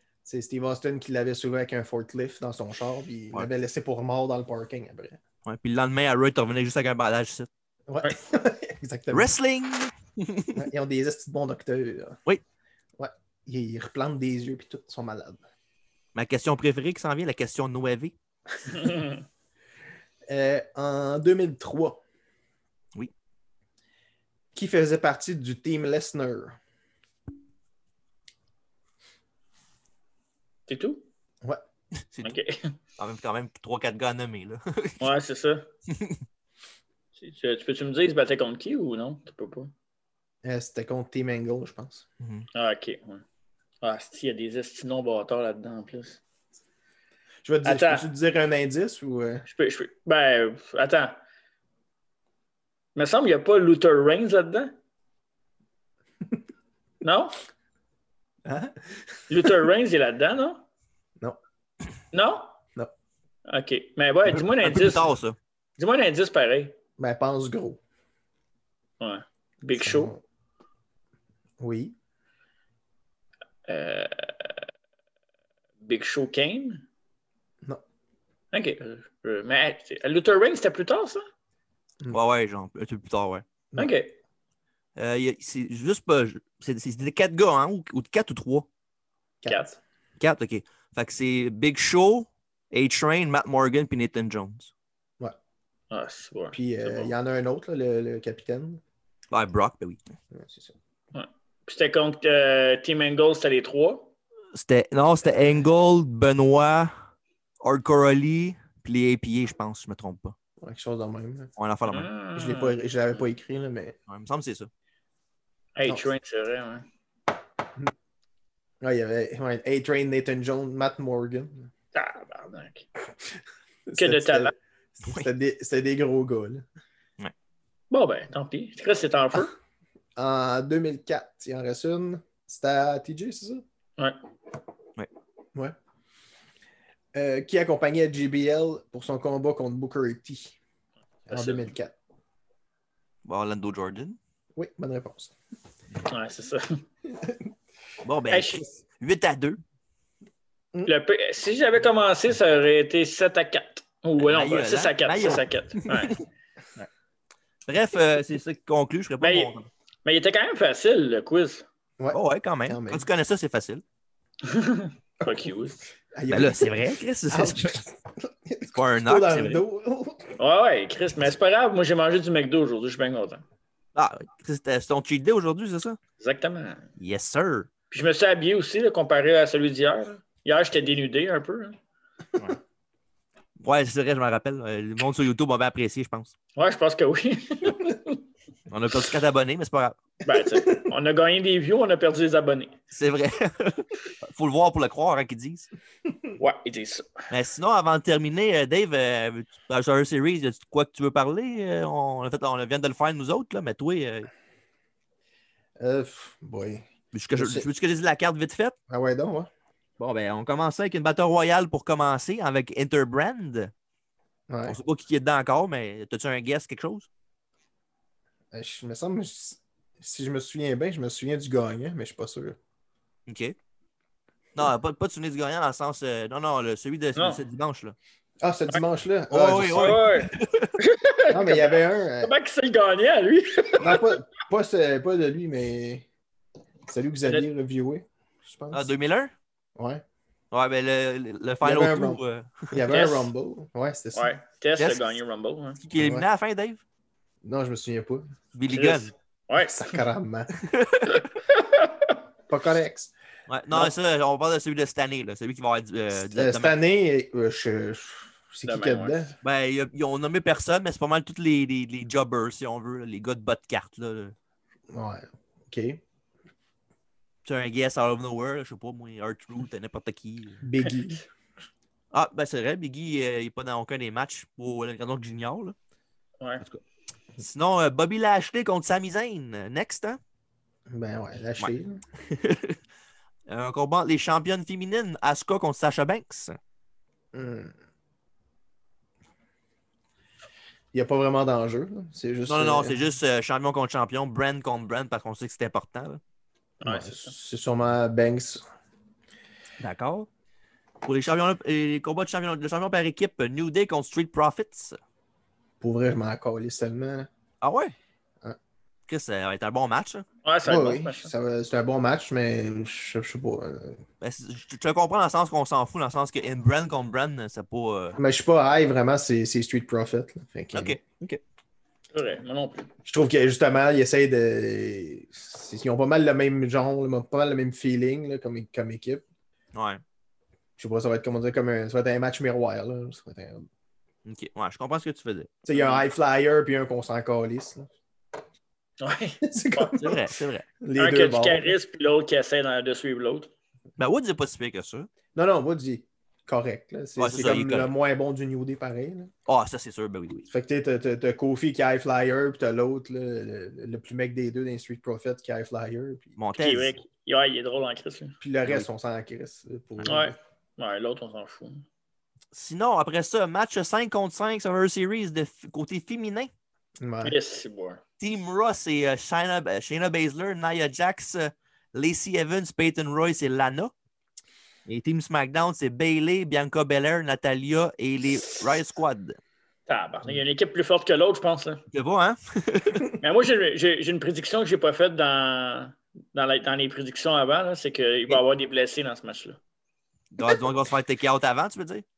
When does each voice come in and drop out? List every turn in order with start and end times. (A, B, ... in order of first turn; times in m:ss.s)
0:00.2-0:05.2 A
0:05.4-0:07.5 B
0:07.9-0:09.3 A
0:09.1-0:10.6 B
0:10.5-0:12.2 A
0:13.0-0:15.4 A
0:16.1-0:18.1 B
0:18.8-0:19.1 C
0:20.3-0:22.0 A
0:24.5-0:26.6 A
0:30.7-0:31.0 C
0:32.1-0:32.4 B
0:32.2-0:32.8 C
0:33.0-0:35.1 B
0:35.0-0:35.7 C
0:35.9-0:36.2 B
0:37.2-0:39.7 C
0:40.4-0:42.0 A
0:42.2-0:42.4 B
0:42.5-0:43.2 C
0:43.8-0:46.2 C
0:47.4-0:49.5 A
0:47.6-0:48.1 C
0:49.5-0:51.2 C
0:52.9-0:54.7 C
0:57.0-0:57.3 C
0:58.4-0:59.6 A
0:59.3-1:00.6 C
1:02.1-1:02.5 C
1:03.5-1:05.1 C
1:04.3-1:05.4 B
1:05.8-1:06.8 C
1:07.0-1:07.8 A
1:09.0-1:10.1 C
1:09.8-1:10.2 A
1:11.6-1:11.9 A
1:13.7-1:14.6 C
1:15.8-1:16.8 C
1:18.5-1:21.2 C
1:22.1-1:23.4 B
1:23.8-1:24.2 C
1:25.0-1:28.7 B
1:29.4-1:29.7 A
1:30.2-1:34.7 B
1:35.9-1:37.1 C
1:36.5-1:38.8 A
1:39.3-1:40.0 B
1:40.3-1:40.7 A
1:41.1-1:44.1 C
1:44.5-1:47.0 B
1:47.6-1:50.4 B
1:50.6-1:51.5 A
1:51.6-1:52.1 B
1:51.9-1:52.8 C
1:52.3-1:54.0 A
1:54.1-1:54.7 B
1:55.8-1:56.9 C
1:58.8-2:01.7 A
2:01.9-2:02.9 C
2:03.9-2:06.6 A
2:03.9-2:04.5 C
2:07.9-2:09.5 C
2:10.2-2:13.6 A
2:17.1-2:20.5 A
2:21.3-2:21.9 A
2:21.3-2:21.7 C
2:23.2-2:24.2 B
2:24.6-2:25.3 A
2:26.0-2:26.8 C
2:27.1-2:27.4 A
2:28.0-2:29.6 B
2:28.3-2:28.6 C
2:30.9-2:36.2 C
2:34.2-2:36.2 B
2:37.6-2:39.7 B
2:39.2-2:41.6 C
2:42.0-2:43.0 A
2:42.1-2:43.8 B
2:44.4-2:45.9 C
2:45.2-2:45.5 A
2:46.1-2:46.8 A
2:46.3-2:47.8 B
2:47.3-2:50.4 A
2:48.7-2:49.6 B
2:50.4-2:53.4 C
2:53.9-2:56.0 B
2:56.2-2:56.9 C
2:57.0-2:57.7 B
2:57.9-3:01.8 C
3:03.6-3:06.3 B
3:06.5-3:08.2 C
3:08.7-3:10.0 B
3:10.2-3:12.7 C
3:10.6-3:10.9 A
3:12.9-3:15.7 B
3:16.4-3:17.3 C
3:17.3-3:24.3 B
3:25.8-3:27.6 A
3:27.1-3:28.7 B
3:28.9-3:29.5 A
3:30.0-3:33.7 B
3:34.5-3:34.8 A
3:34.6-3:37.1 B
3:38.5-3:42.6 A
3:43.3-3:43.6 B
3:44.5-3:48.0 B
3:47.2-3:47.4 C
3:48.4-3:50.1 A
3:49.3-3:50.7 B
3:49.7-3:54.2 C
3:51.3-3:52.3 A
3:53.8-3:56.0 A
3:56.9-3:58.9 A
3:58.7-3:59.3 B
3:59.8-4:00.0 A
4:00.5-4:02.8 B
4:01.6-4:04.3 A
4:02.9-4:03.3 C
4:04.1-4:05.8 C
4:04.8-4:05.0 B
4:05.8-4:06.8 B
4:06.0-4:06.2 A
4:07.4-4:08.3 A
4:08.5-4:09.1 B
4:08.7-4:10.0 C
4:09.6-4:10.6 A
4:10.6-4:11.3 B
4:11.3-4:12.2 C
4:12.5-4:13.1 A
4:13.5-4:16.7 B
4:16.2-4:19.4 A
4:18.6-4:19.3 C
4:19.4-4:24.3 B
4:24.9-4:26.0 A
4:27.4-4:30.6 B
4:30.6-4:31.2 A
4:32.1-4:35.7 B
4:37.4-4:40.2 B
4:40.9-4:42.0 A
4:42.2-4:42.8 B
4:43.5-4:46.6 B
4:47.3-4:47.7 A
4:50.9-4:53.0 A
4:52.5-4:56.2 B
4:56.8-4:57.3 C
4:56.8-4:58.6 A
4:59.8-5:00.3 B
5:01.0-5:05.0 B
5:05.8-5:07.3 A
5:07.6-5:07.9 B
5:09.1-5:10.2 B
5:10.4-5:11.3 C
5:10.6-5:14.0 A
5:14.2-5:18.2 B
5:18.2-5:21.0 A
5:20.7-5:21.4 B
5:22.1-5:22.9 C
5:23.0-5:29.2 A
5:29.7-5:30.0 B
5:30.8-5:33.7 A
5:34.2-5:35.6 B
5:35.6-5:37.9 A
5:35.7-5:36.1 C
5:39.0-5:40.0 C
5:39.4-5:41.7 A
5:40.0-5:40.6 B
5:41.0-5:43.5 C
5:44.0-5:45.1 B
5:45.3-5:49.3 A
5:47.2-5:47.9 B
5:49.5-5:50.5 B
5:50.5-5:56.4 A
5:56.4-5:57.0 B
5:56.6-5:58.3 C
5:58.4-6:00.3 A
6:00.0-6:01.9 C
6:02.5-6:06.5 B
6:07.0-6:07.4 A
6:07.2-6:08.0 C
6:08.2-6:13.9 B
6:14.9-6:19.4 B
6:19.9-6:21.8 C
6:21.9-6:23.0 B
6:23.2-6:29.6 C
6:30.3-6:32.0 B